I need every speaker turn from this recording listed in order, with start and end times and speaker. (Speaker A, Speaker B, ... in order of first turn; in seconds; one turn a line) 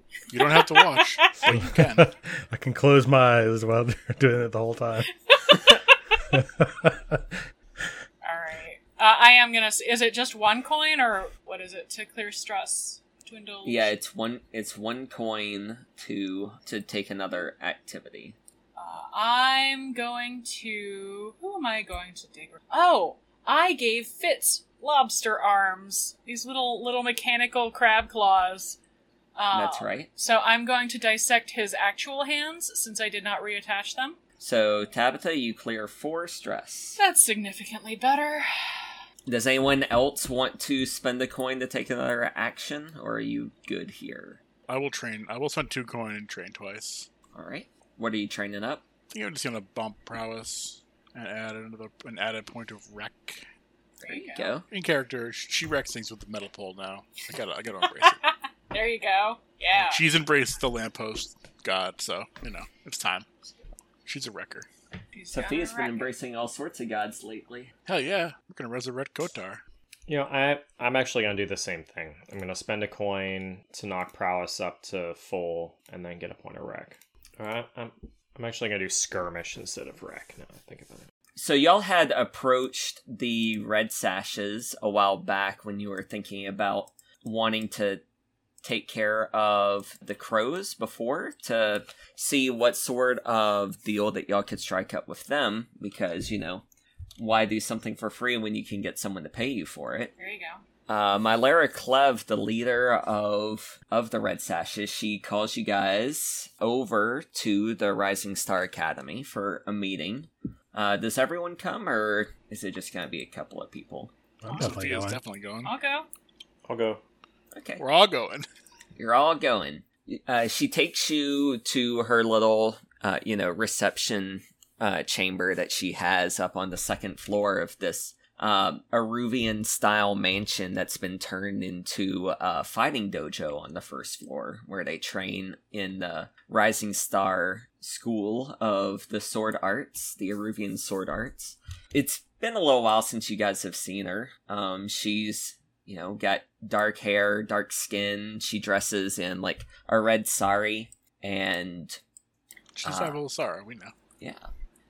Speaker A: 0.3-2.1
Speaker B: 0.3-1.5
Speaker C: 1.4-5.1
Speaker B: 5.3-6.2
Speaker C: 6.3-7.4
Speaker B: 8.2-13.9
Speaker D: 13.7-18.4
Speaker B: 18.8-28.8
Speaker B: 29.4-34.2
Speaker D: 29.5-30.1
Speaker D: 34.4-37.0
Speaker B: 37.0-38.9
Speaker D: 39.3-44.4
Speaker A: 44.7-47.1
Speaker D: 47.3-48.9
Speaker A: 49.1-53.5
Speaker B: 54.0-54.5
Speaker D: 54.0-54.7
Speaker A: 54.7-58.2
Speaker B: 57.9-60.0
Speaker A: 59.8-63.3
Speaker A: 64.0-64.7
Speaker B: 65.1-66.1
Speaker D: 65.3-67.7
Speaker A: 67.8-69.6
Speaker E: 70.1-81.0
Speaker D: 81.4-88.0
Speaker D: 88.6-96.6
Speaker D: 97.2-100.1
Speaker B: 100.2-100.6
Speaker D: 100.9-114.1
Speaker C: 114.4-115.2
Speaker B: 114.5-114.8
Speaker A: 114.6-115.7
Speaker B: 115.6-116.1
Speaker E: 116.7-117.0
Speaker D: 117.5-117.8
Speaker A: 117.8-118.5
Speaker D: 119.0-152.0
Speaker A: 152.8-153.9
Speaker D: 152.8-153.2
Speaker D: 154.2-154.5